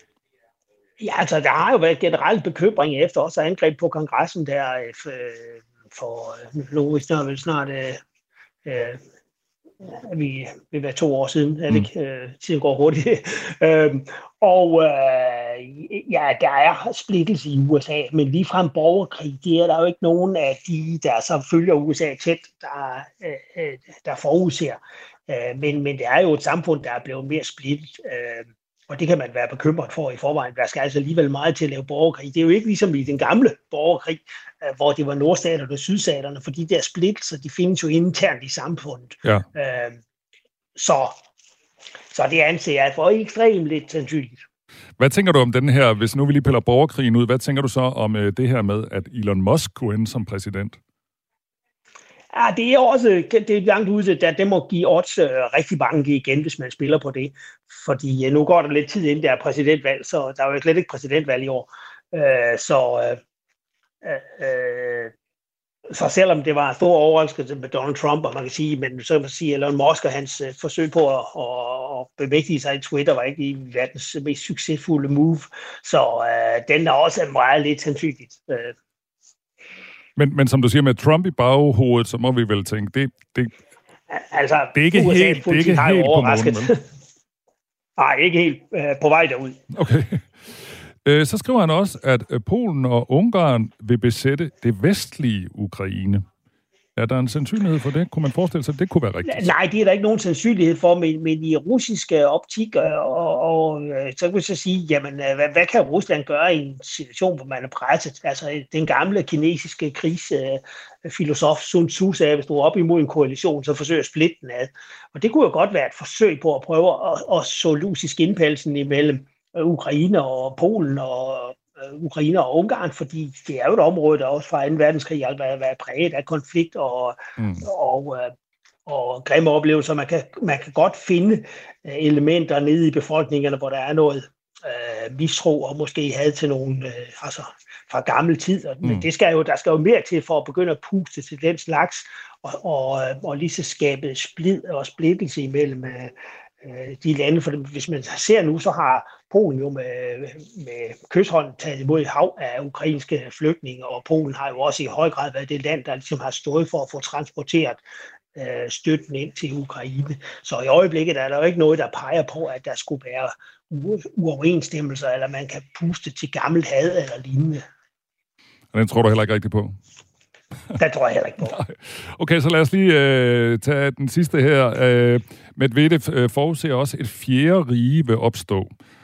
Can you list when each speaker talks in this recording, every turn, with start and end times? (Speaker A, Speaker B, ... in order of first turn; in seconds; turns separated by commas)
Speaker A: 1.0-8.0, Speaker A: 8.7-9.0, Speaker A: 9.8-40.0, Speaker A: 40.8-41.1, Speaker A: 42.1-44.4, Speaker B: 45.0-50.8, Speaker A: 52.3-63.2, Speaker A: 64.0-65.1, Speaker A: 65.9-78.7, Speaker B: 80.2-83.5, Speaker A: 84.1-86.8, Speaker B: 84.7-86.7, Speaker A: 88.0-89.6, Speaker B: 89.7-96.2, Speaker B: 97.0-99.5, Speaker A: 99.2-128.3, Speaker B: 127.4-127.7, Speaker A: 128.8-146.1, Speaker A: 146.6-157.8, Speaker A: 158.3-167.6, Speaker B: 168.7-169.8, Speaker A: 170.8-171.6, Speaker B: 171.4-178.7